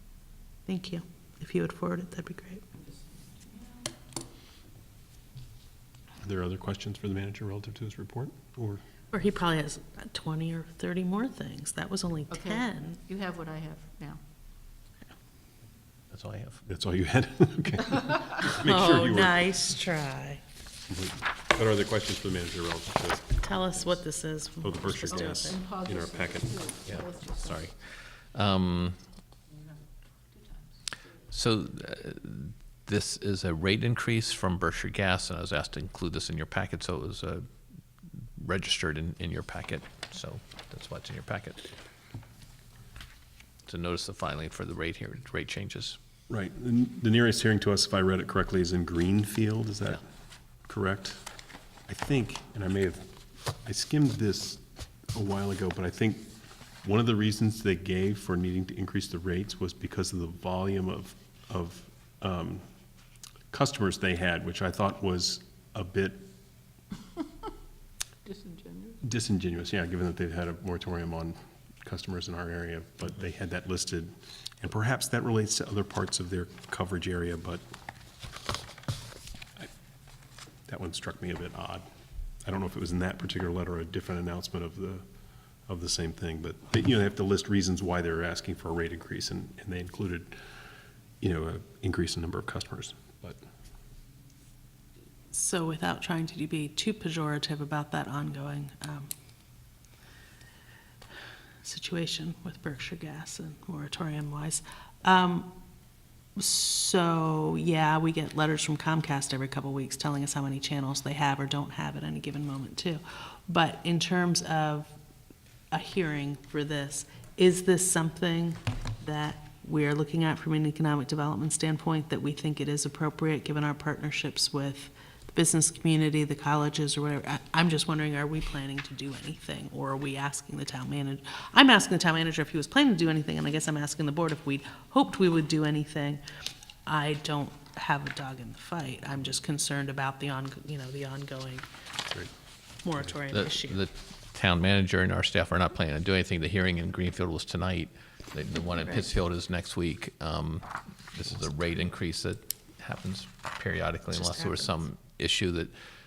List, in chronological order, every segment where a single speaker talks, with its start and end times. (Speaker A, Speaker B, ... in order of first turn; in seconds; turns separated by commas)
Speaker A: 0.7-2.6, Speaker B: 2.8-3.7, Speaker C: 6.2-8.8, Speaker A: 9.1-13.0, Speaker B: 12.3-14.2, Speaker D: 16.1-16.6, Speaker C: 16.7-19.5, Speaker A: 18.6-20.4, Speaker C: 20.9-24.0, Speaker A: 23.4-25.6, Speaker C: 24.6-26.7, Speaker B: 25.1-27.7, Speaker D: 26.9-29.0, Speaker D: 31.3-37.4, Speaker D: 38.4-41.7, Speaker D: 43.7-46.0, Speaker C: 46.3-50.0, Speaker C: 50.7-51.2, Speaker C: 51.9-53.1, Speaker C: 53.6-54.6, Speaker C: 55.1-56.3, Speaker C: 56.8-62.6, Speaker C: 63.5-66.2, Speaker B: 68.2-69.0, Speaker C: 69.0-77.6, Speaker C: 80.7-81.8, Speaker C: 82.5-85.0, Speaker C: 85.7-90.4, Speaker C: 91.2-93.4, Speaker A: 95.3-99.1, Speaker A: 101.6-105.5, Speaker A: 106.4-114.9, Speaker A: 115.7-136.2, Speaker A: 136.9-141.7, Speaker A: 142.8-143.8, Speaker D: 143.3-155.7, Speaker A: 154.1-154.8